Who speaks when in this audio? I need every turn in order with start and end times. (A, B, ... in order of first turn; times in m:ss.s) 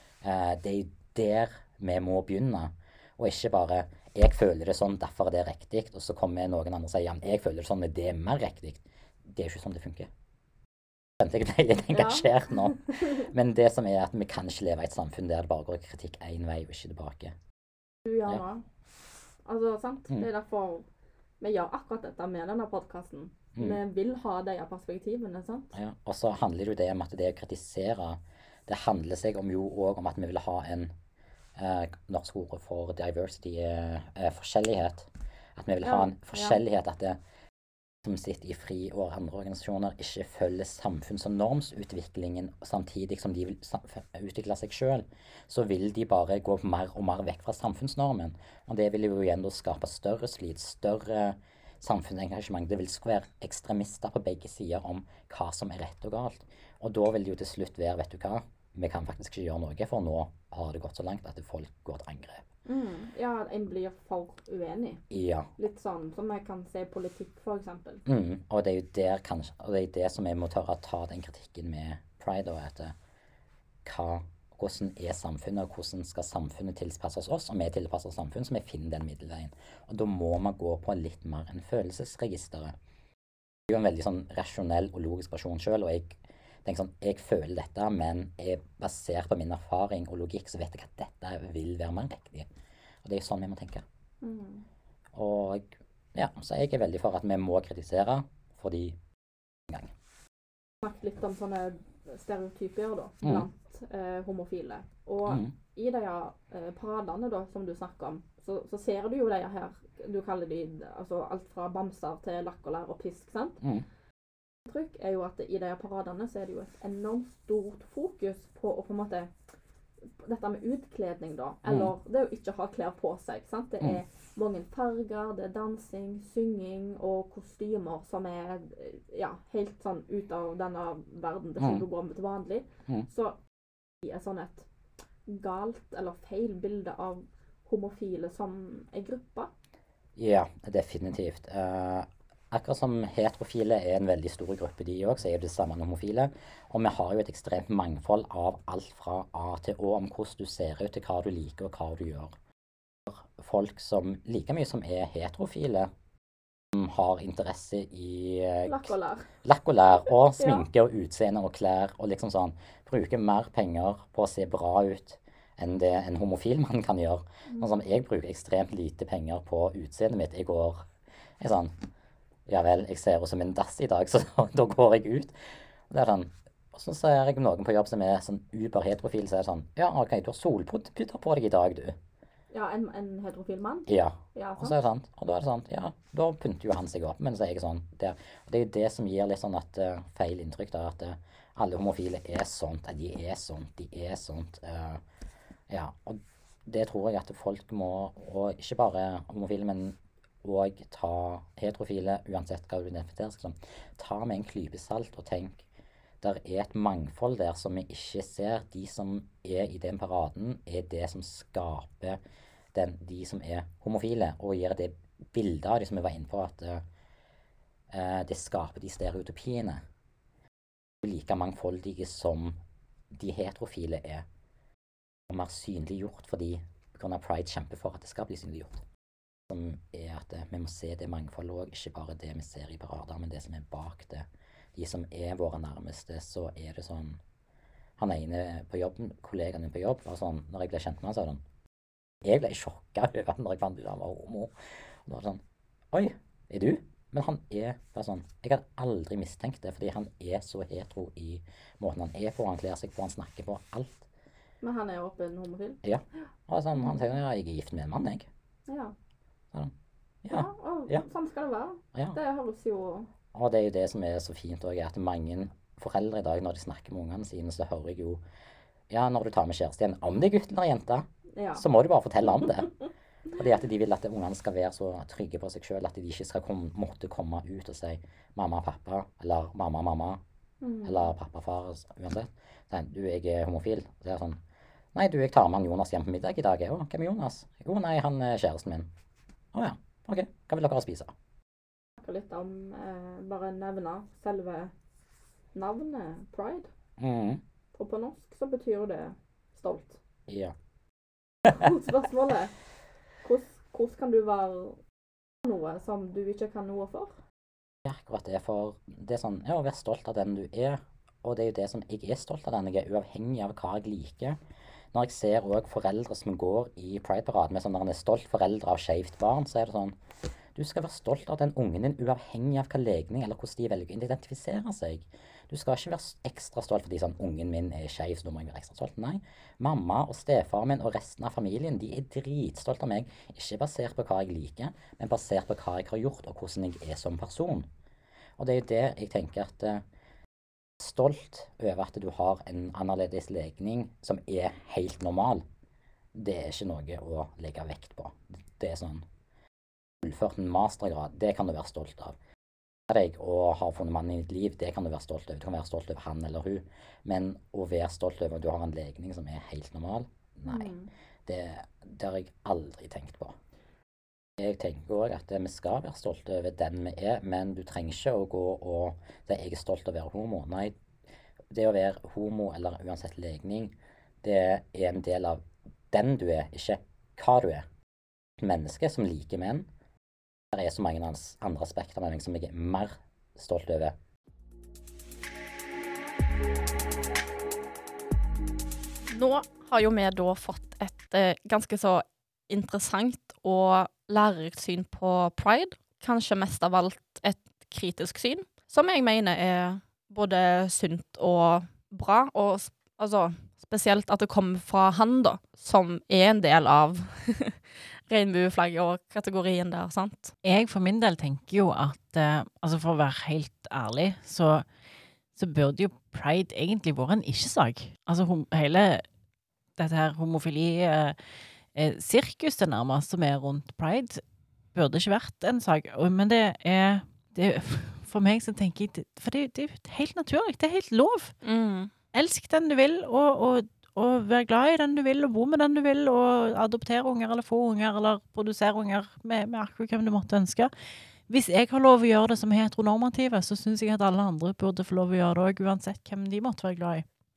0:00.2-0:10.1 A
0:11.2-0:17.4 A
0:11.9-0:13.3 B
0:18.1-0:18.7 B
0:19.5-0:20.9 B
0:21.4-0:25.8 B
0:25.7-0:30.9 A
0:31.6-0:37.2 A
0:35.8-0:36.6 B
0:38.0-1:02.4 A
1:02.7-1:05.0 B
1:05.1-1:05.5 A
1:05.6-1:08.0 B
1:08.1-1:13.0 A
1:13.8-1:22.7 A
1:23.7-1:32.5 A
1:33.0-1:33.8 A
1:34.2-1:34.7 B
1:35.1-1:39.0 A
1:40.8-1:53.6 B
1:45.3-1:45.5 A
1:53.6-1:53.9 A
1:54.7-1:59.3 B
2:00.2-2:13.4 B
2:01.6-2:01.9 A
2:11.6-2:11.8 A
2:14.0-2:14.7 B
2:15.3-2:19.5 B
2:20.2-2:32.3 A
2:33.1-2:35.9 A
2:36.7-2:50.9 A
2:38.6-2:39.3 B
2:40.1-2:40.6 B
2:47.5-2:47.8 B
2:51.4-2:51.7 A
2:52.5-2:55.4 A
2:55.9-3:02.0 A
3:02.5-3:04.8 B
3:03.9-3:15.0 A
3:15.7-3:25.6 A
3:26.2-3:32.2 A
3:32.7-3:36.8 A
3:37.9-3:39.8 A
3:41.0-3:42.6 A
3:43.1-3:44.3 A
3:45.3-3:48.8 A
3:49.5-3:57.2 A
3:58.0-4:01.4 A
4:02.2-4:04.5 A
4:05.0-4:05.4 A
4:05.9-4:14.1 A
4:14.6-4:15.8 B
4:15.8-4:18.3 A
4:18.7-4:18.9 B
4:20.2-4:21.0 A
4:20.3-4:23.1 B
4:23.3-4:28.2 A
4:28.9-4:32.7 A
4:31.4-4:31.6 B
4:33.4-4:40.2 A
4:40.6-4:41.1 B
4:40.8-4:44.4 A
4:45.0-4:48.9 A
4:49.5-4:51.1 A
4:52.0-4:54.7 B
4:55.5-4:56.7 B
4:57.0-4:57.4 A
4:57.7-5:00.0 B
5:00.3-5:00.5 A
5:01.5-5:02.5 B
5:03.2-5:04.8 B
5:05.4-5:07.2 B
5:07.9-5:14.4 A
5:14.9-5:20.0 A
5:20.6-5:37.7 A
5:38.4-5:39.8 A
5:40.8-5:45.4 A
5:46.2-5:49.0 A
5:50.0-5:52.2 A
5:52.9-6:00.7 A
6:00.5-6:00.9 B
6:01.3-6:03.4 A
6:04.4-6:10.8 A
6:11.5-6:17.7 A
6:18.4-6:19.7 A
6:20.5-6:24.0 A
6:29.1-6:50.3 B
6:50.4-6:54.7 C
6:55.4-6:59.0 C
6:59.8-7:04.2 C
7:04.7-7:11.4 C
7:11.4-7:11.9 B
7:12.1-7:20.7 C
7:21.3-7:27.0 C